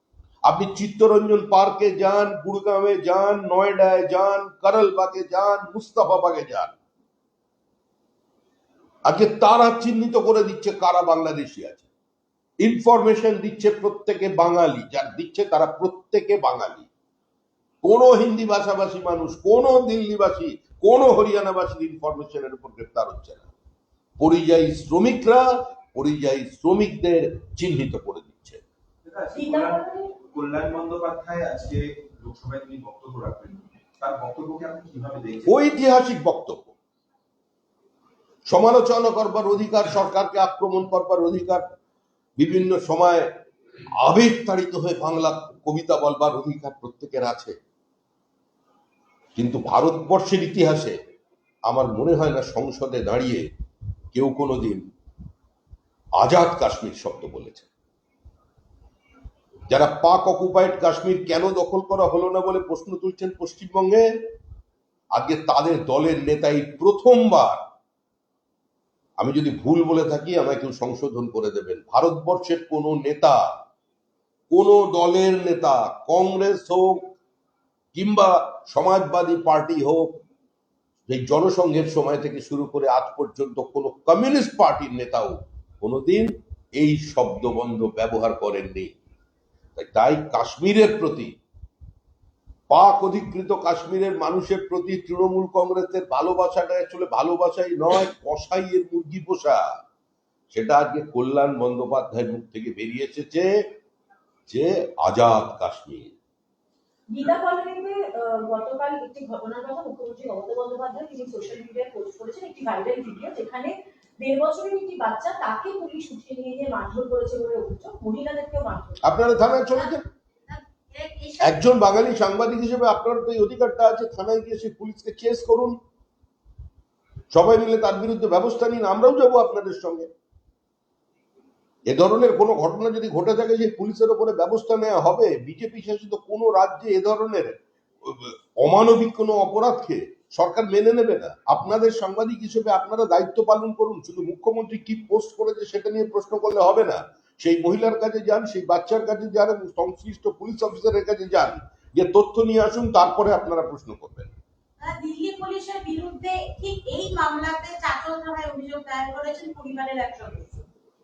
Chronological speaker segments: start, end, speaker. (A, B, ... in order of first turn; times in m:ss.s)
0:00.4-0:06.8 A
0:09.0-0:11.8 A
0:12.6-0:16.9 A
0:17.8-0:23.5 A
0:24.2-0:28.6 A
0:29.0-0:35.6 B
0:29.3-0:30.1 C
0:35.5-0:36.7 A
0:38.5-0:41.6 A
0:42.4-0:43.3 A
0:44.0-0:47.5 A
0:49.4-0:51.0 A
0:51.7-0:53.4 A
0:54.1-0:54.8 A
0:56.2-0:57.7 A
0:59.7-1:04.0 A
1:05.1-1:07.6 A
1:09.2-1:13.4 A
1:14.5-1:17.0 A
1:17.9-1:20.1 A
1:21.1-1:28.9 A
1:29.8-1:31.3 A
1:32.7-1:39.6 A
1:40.5-1:43.5 A
1:44.5-1:46.1 A
1:47.1-1:59.4 C
1:59.0-2:00.0 A
1:59.7-2:01.7 D
2:01.4-2:05.7 A
2:07.3-2:10.1 A
2:11.9-2:34.3 A
2:34.8-2:40.6 D